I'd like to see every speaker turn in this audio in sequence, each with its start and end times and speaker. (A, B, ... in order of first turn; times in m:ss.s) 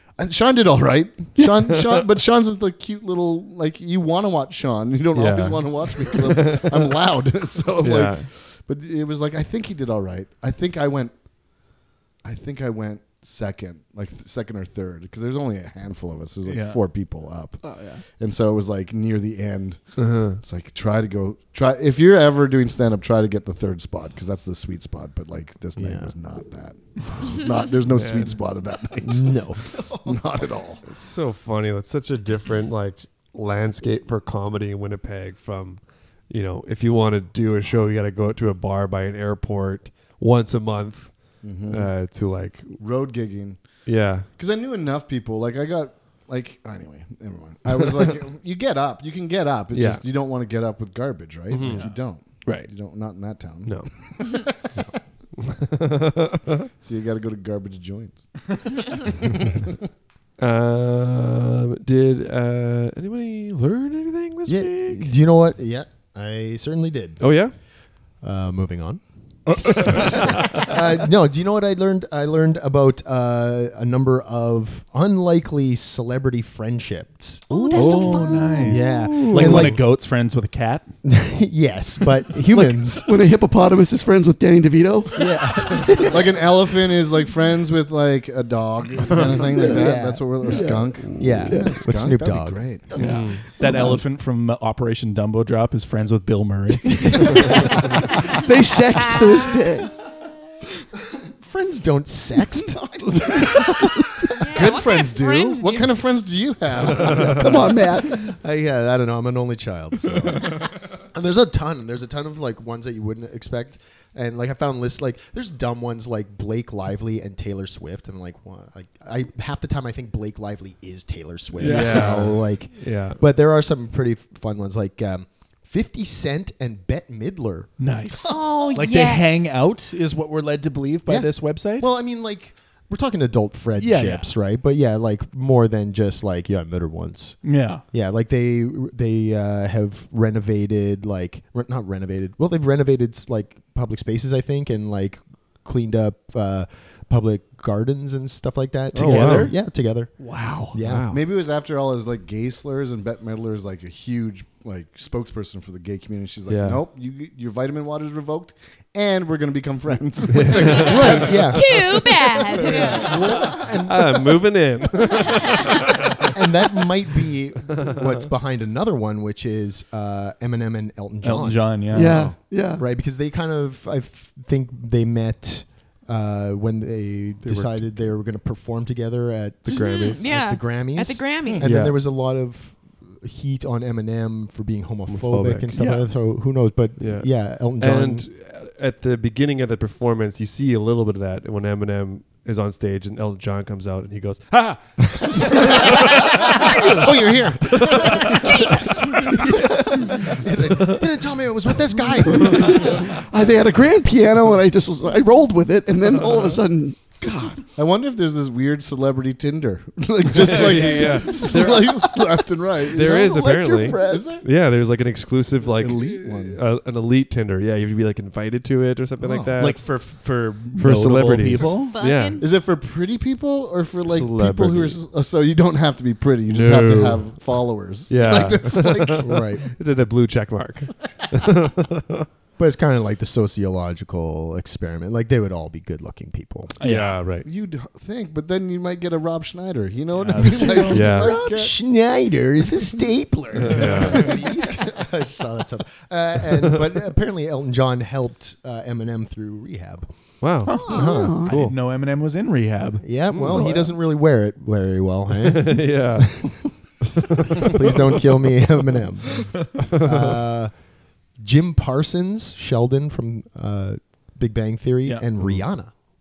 0:00.2-0:11.1 A
0:05.1-0:07.0 B
0:07.8-0:08.2 B
0:12.2-0:19.8 A
0:16.4-0:16.8 C
0:17.6-0:18.0 C
0:20.0-0:20.4 B
0:20.4-0:29.4 A
0:25.8-0:26.1 D
0:27.9-0:28.4 B
0:29.0-0:30.2 D
0:30.0-0:30.8 A
0:30.9-0:42.8 B
0:41.4-0:41.9 A
0:42.8-0:43.6 A
0:43.9-0:44.3 B
0:44.4-0:54.5 A
0:47.7-0:48.2 B
0:49.7-0:50.0 B
0:51.5-0:51.9 B
0:51.6-0:52.0 C
0:52.4-0:52.7 B
0:55.5-0:56.6 B
0:56.8-0:59.8 A
1:00.4-1:05.2 B
1:04.5-1:07.3 D
1:07.2-1:07.5 B
1:08.2-1:19.8 D
1:09.5-1:10.1 C
1:17.5-1:18.6 E
1:17.7-1:20.9 C
1:18.7-1:19.8 B
1:21.0-1:23.1 D
1:22.5-1:26.2 F
1:25.2-1:26.1 D
1:26.0-1:32.9 A
1:29.1-1:29.4 B
1:29.5-1:31.8 F
1:29.6-1:30.6 D
1:31.2-1:32.8 D
1:33.0-1:33.4 B
1:33.0-1:37.5 C
1:33.6-1:34.0 F
1:33.7-1:34.0 D
1:36.9-1:39.9 F
1:41.4-1:44.0 D
1:42.6-1:44.3 F
1:44.4-1:45.9 E
1:44.5-1:47.8 A
1:47.1-1:48.2 F
1:48.1-2:08.4 D
2:01.6-2:02.2 C
2:01.6-2:03.2 B
2:07.8-2:11.9 C
2:08.3-2:09.6 E
2:11.1-2:30.1 D
2:13.8-2:14.4 C
2:17.4-2:17.8 C
2:28.9-2:29.5 B
2:29.0-2:29.5 C
2:30.2-2:30.8 C
2:30.7-2:31.2 D
2:30.8-2:31.2 B
2:31.1-2:42.0 A
2:36.5-2:36.8 B
2:40.3-2:41.4 B
2:40.8-2:42.0 D
2:41.1-2:43.7 E
2:42.5-2:43.6 A
2:42.6-2:44.2 D
2:42.7-2:43.0 C
2:43.8-2:46.3 B
2:45.3-2:45.7 E
2:46.2-3:08.3 D
2:47.9-2:48.1 B
2:51.2-2:52.2 C
2:51.9-2:52.9 F
2:57.4-2:57.9 B
2:59.7-3:01.7 E
2:59.7-3:00.0 B
3:01.4-3:01.8 A
3:01.6-3:02.0 B
3:05.1-3:05.8 B
3:05.8-3:06.1 C
3:07.0-3:17.1 B
3:16.5-3:17.0 D
3:16.7-3:18.8 A
3:17.7-3:18.3 B
3:17.8-3:23.1 D
3:18.4-3:19.3 E
3:20.5-3:21.0 B
3:22.4-3:27.7 F
3:22.4-3:22.9 B
3:26.2-3:26.6 B
3:27.8-3:34.4 A
3:30.3-3:32.3 B
3:30.5-3:31.1 C
3:32.9-3:40.0 B
3:32.9-3:34.4 F
3:35.7-3:36.6 A
3:39.2-3:39.7 A
3:39.6-3:42.0 C
3:40.8-3:42.4 B
3:41.9-3:42.5 E
3:42.4-3:49.3 A
3:44.0-3:45.0 B
3:46.5-3:47.4 B
3:48.1-3:52.3 B
3:49.2-3:49.6 D
3:52.6-3:56.8 D
3:56.8-3:57.2 C
3:56.8-3:57.5 B
3:57.4-4:01.7 A
4:00.1-4:01.1 C
4:00.4-4:00.9 F
4:00.7-4:10.1 D
4:00.9-4:01.4 B
4:03.6-4:04.4 B
4:03.7-4:04.4 A
4:06.6-4:06.9 B
4:10.4-4:11.8 B
4:10.7-4:13.0 C
4:10.7-4:11.2 E
4:10.9-4:11.4 D
4:11.0-4:11.6 F
4:13.0-4:16.6 D
4:13.3-4:13.6 B
4:13.5-4:13.9 F
4:15.4-4:16.4 B
4:17.4-4:18.2 B
4:17.6-4:20.8 D
4:19.9-4:20.4 B
4:21.4-4:25.9 D
4:25.4-4:25.7 B